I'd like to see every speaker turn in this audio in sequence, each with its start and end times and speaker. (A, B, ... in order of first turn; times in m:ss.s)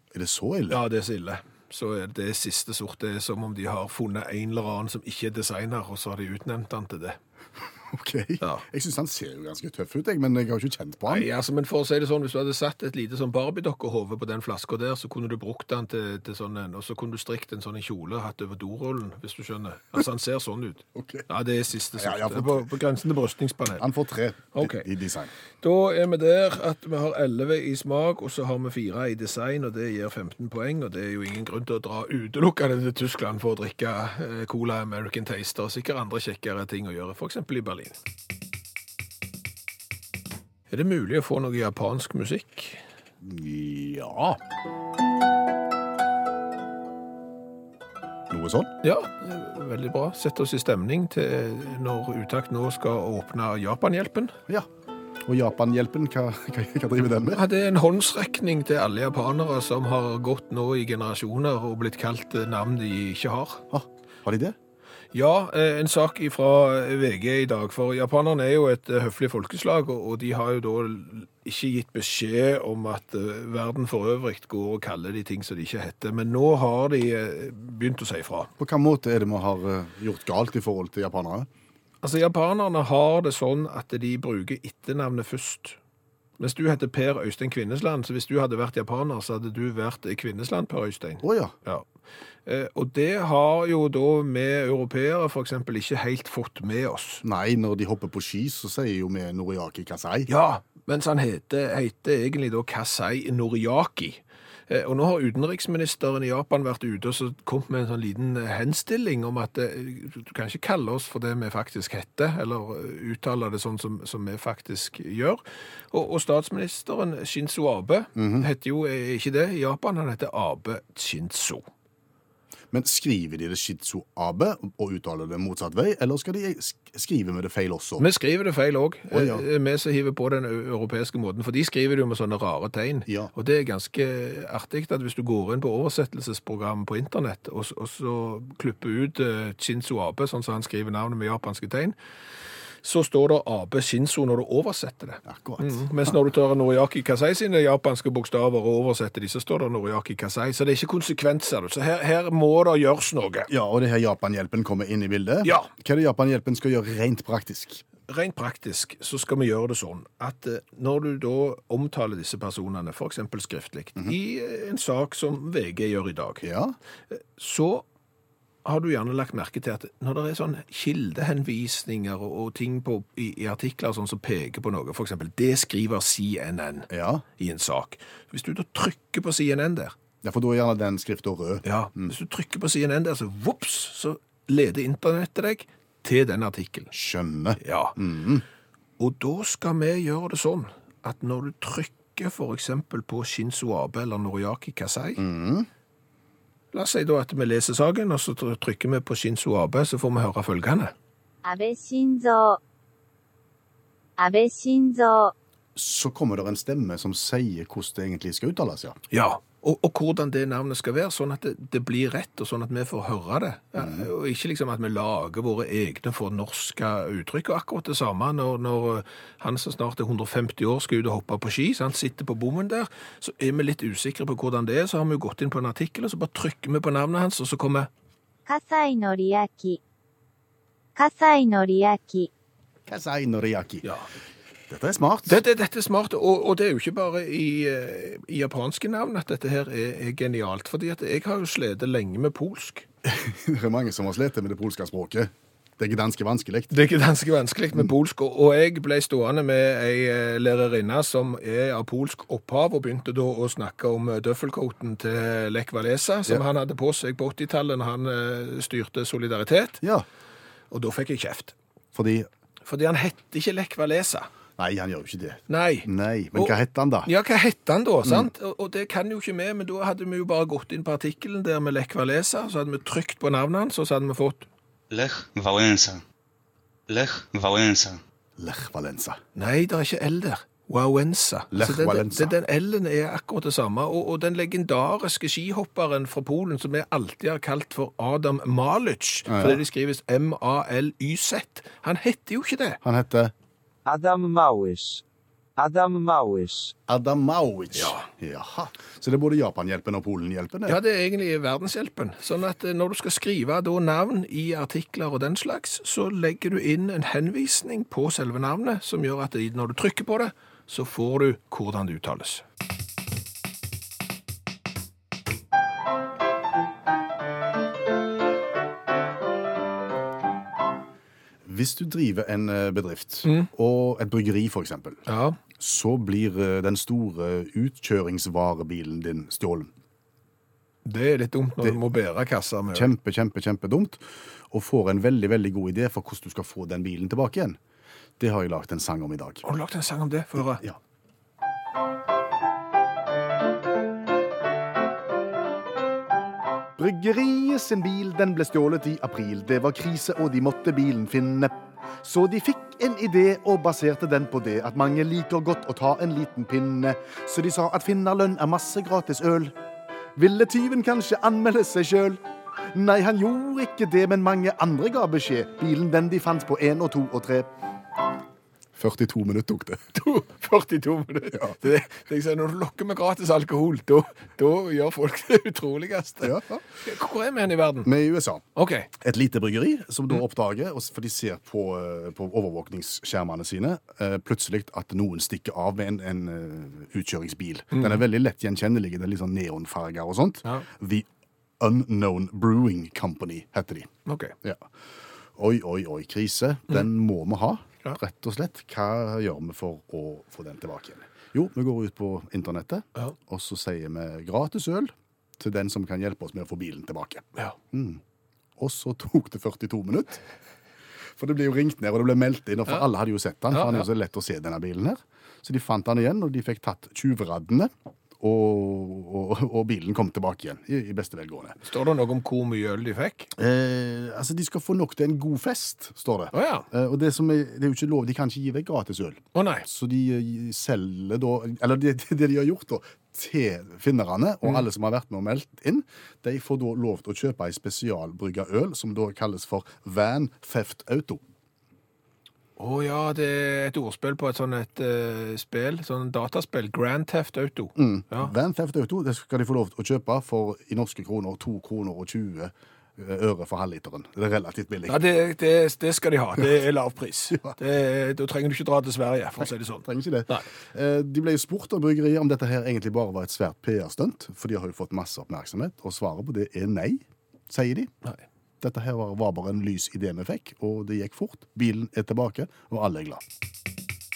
0:00.1-0:00.8 A
0:00.7-0:07.2 B
0:07.9-0:11.3 A
0:11.1-0:23.8 B
0:20.9-0:21.3 A
0:22.0-0:22.7 A
0:23.8-0:25.3 A
0:24.5-0:24.9 B
0:25.6-0:38.0 B
0:40.7-0:42.8 B
0:43.2-0:44.4 A
0:48.3-0:48.7 A
0:48.8-0:54.4 B
0:55.2-0:57.4 A
0:57.3-1:03.6 B
1:03.7-1:04.6 A
1:05.1-1:18.5 B
1:18.6-1:21.5 A
1:22.0-1:25.8 B
1:26.4-1:31.8 B
1:31.2-1:31.5 A
1:32.4-1:37.2 B
1:37.2-1:40.3 A
1:40.3-2:01.6 B
1:58.2-1:58.5 A
2:02.7-2:08.0 A
2:08.0-2:22.0 B
2:09.1-2:09.4 A
2:22.8-2:33.5 B
2:25.2-2:26.1 A
2:33.5-2:37.8 A
2:35.4-2:35.7 B
2:38.1-2:46.4 B
2:46.4-2:46.7 A
2:47.1-2:47.8 B
2:48.6-2:59.9 B
2:56.9-2:57.2 A
3:00.2-3:02.1 A
3:01.6-3:06.9 B
3:06.9-3:08.4 A
3:07.6-3:08.0 B
3:09.0-3:15.2 B
3:15.2-3:15.7 A
3:16.7-3:20.9 B
3:21.4-3:22.6 C
3:24.2-3:25.3 C
3:25.8-3:29.0 A
3:29.1-3:47.9 B
3:33.8-3:34.1 A
3:48.5-3:49.8 C
3:51.0-3:52.3 C
3:52.9-3:53.8 A
3:53.8-3:54.1 B
3:54.7-3:55.4 A
3:55.3-4:02.8 B
4:03.0-4:06.7 A
4:06.7-4:19.8 B
4:20.7-4:21.5 B
4:21.9-4:22.3 A
4:22.6-4:24.3 B
4:24.6-4:27.1 A
4:25.5-4:34.5 B
4:34.9-4:36.0 D
4:36.9-4:38.0 D
4:38.4-4:39.2 A
4:39.3-4:52.8 B
4:41.5-4:42.3 A
4:49.3-4:49.6 A
4:52.8-4:53.3 A
4:53.8-4:55.0 E
4:55.6-4:56.7 E
4:56.9-5:00.8 A
4:57.7-4:58.1 B
5:00.7-5:12.4 B
5:21.4-5:25.0 A
5:25.1-5:25.4 B
5:25.6-5:29.7 A
5:30.8-5:32.9 B
5:32.7-5:37.6 A
5:38.2-5:39.4 A
5:39.4-5:40.6 B
5:46.8-5:59.6 A
6:00.1-6:07.5 A
6:08.8-6:09.9 A
6:09.9-6:17.9 B
6:16.2-6:16.6 A
6:17.8-6:18.4 A
6:18.5-6:18.9 B
6:19.0-6:31.0 A
6:27.7-6:28.0 B
6:31.6-6:33.9 A
6:34.0-6:34.3 B
6:34.4-6:34.7 A
6:35.4-6:48.0 A
6:48.6-6:50.2 A
6:51.2-7:01.6 A
6:53.5-6:53.8 B
7:01.6-7:03.3 B
7:03.4-7:21.2 A
7:06.3-7:06.7 B
7:09.3-7:09.6 B
7:22.6-7:28.3 B
7:27.8-7:35.0 A
7:34.9-7:40.4 B
7:39.8-7:47.9 A
7:48.6-7:53.2 A